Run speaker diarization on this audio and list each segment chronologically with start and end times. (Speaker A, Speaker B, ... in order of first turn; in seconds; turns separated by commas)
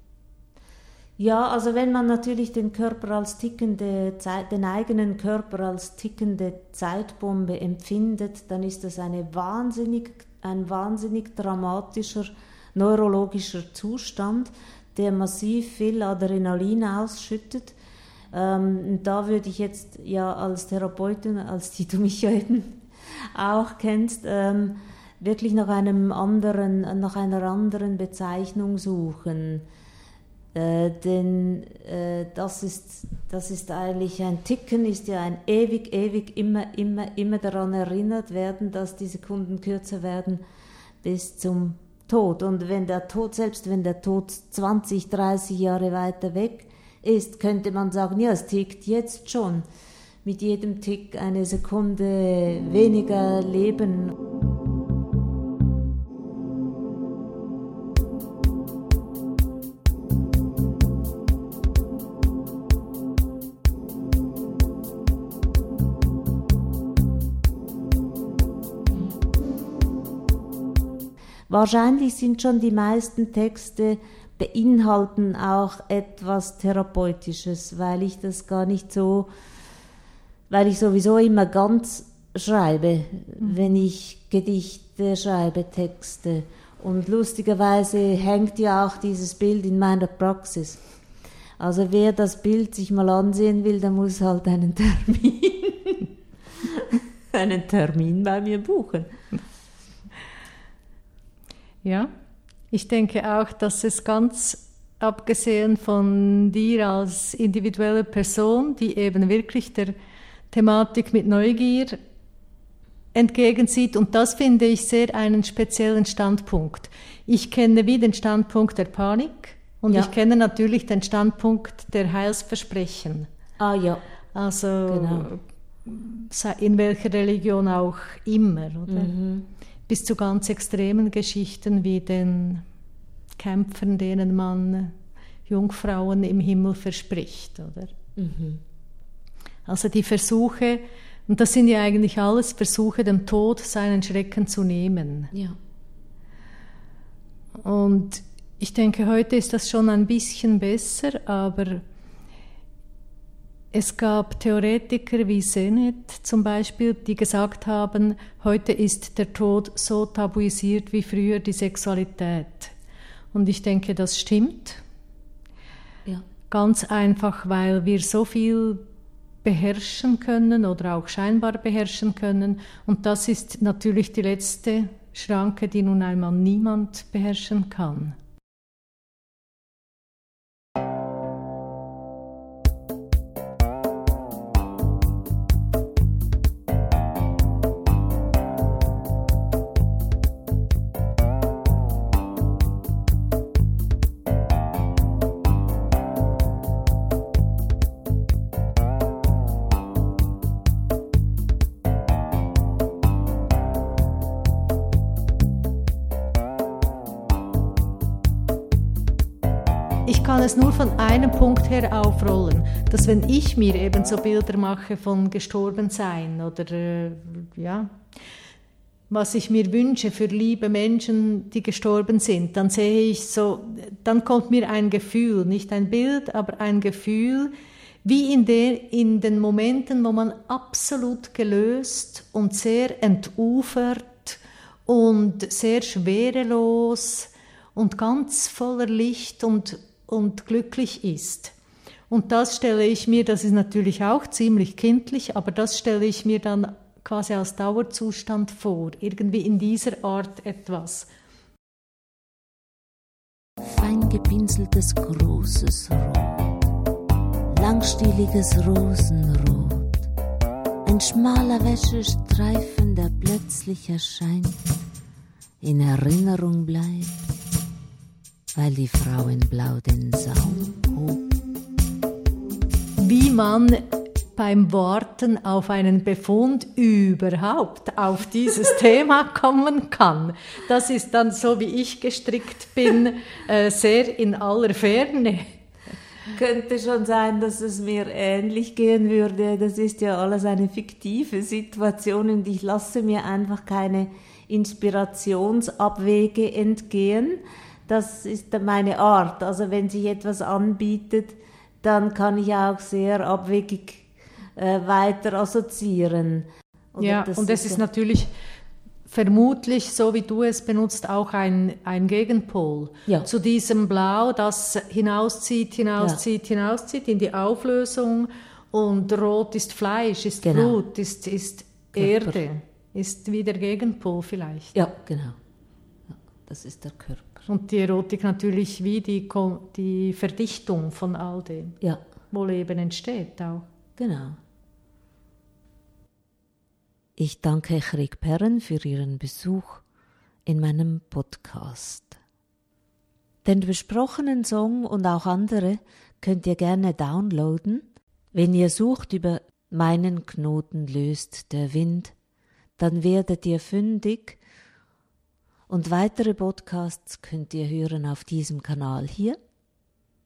Speaker A: 1.2-17.8, Speaker A: 18.3-22.8, Speaker A: 23.3-29.6, Speaker A: 30.5-40.4, Speaker A: 41.0-49.6, Speaker A: 50.2-54.1, Speaker A: 71.5-79.3, Speaker A: 80.5-90.8, Speaker A: 91.6-96.0, Speaker A: 96.6-99.2, Speaker B: 101.8-102.1, Speaker B: 102.7-109.9, Speaker B: 110.5-112.0, Speaker B: 113.1-123.3, Speaker A: 123.6-124.0, Speaker B: 124.3-129.1, Speaker A: 124.9-125.3, Speaker A: 128.9-129.5, Speaker B: 129.9-132.6, Speaker B: 133.3-134.9, Speaker B: 135.5-137.9, Speaker A: 138.2-138.6, Speaker B: 139.7-145.3, Speaker B: 147.6-151.8, Speaker B: 153.7-162.7, Speaker B: 163.3-164.8, Speaker B: 166.5-168.8, Speaker B: 169.4-178.2, Speaker B: 210.1-218.0, Speaker B: 219.1-227.5, Speaker B: 228.0-241.5, Speaker B: 242.1-251.1, Speaker A: 253.6-256.6, Speaker A: 257.5-260.1, Speaker A: 260.8-264.6, Speaker A: 265.6-267.3, Speaker A: 268.6-271.2, Speaker B: 272.9-285.6, Speaker A: 286.3-307.8, Speaker B: 307.0-308.3, Speaker B: 309.1-324.7, Speaker A: 320.4-320.8, Speaker A: 321.9-322.4, Speaker A: 324.7-325.4, Speaker A: 326.1-327.4, Speaker B: 327.5-331.8, Speaker B: 332.3-333.6, Speaker A: 334.0-334.4, Speaker A: 337.2-339.8, Speaker A: 340.4-342.2, Speaker A: 343.4-352.1, Speaker A: 352.8-354.4, Speaker A: 355.7-359.4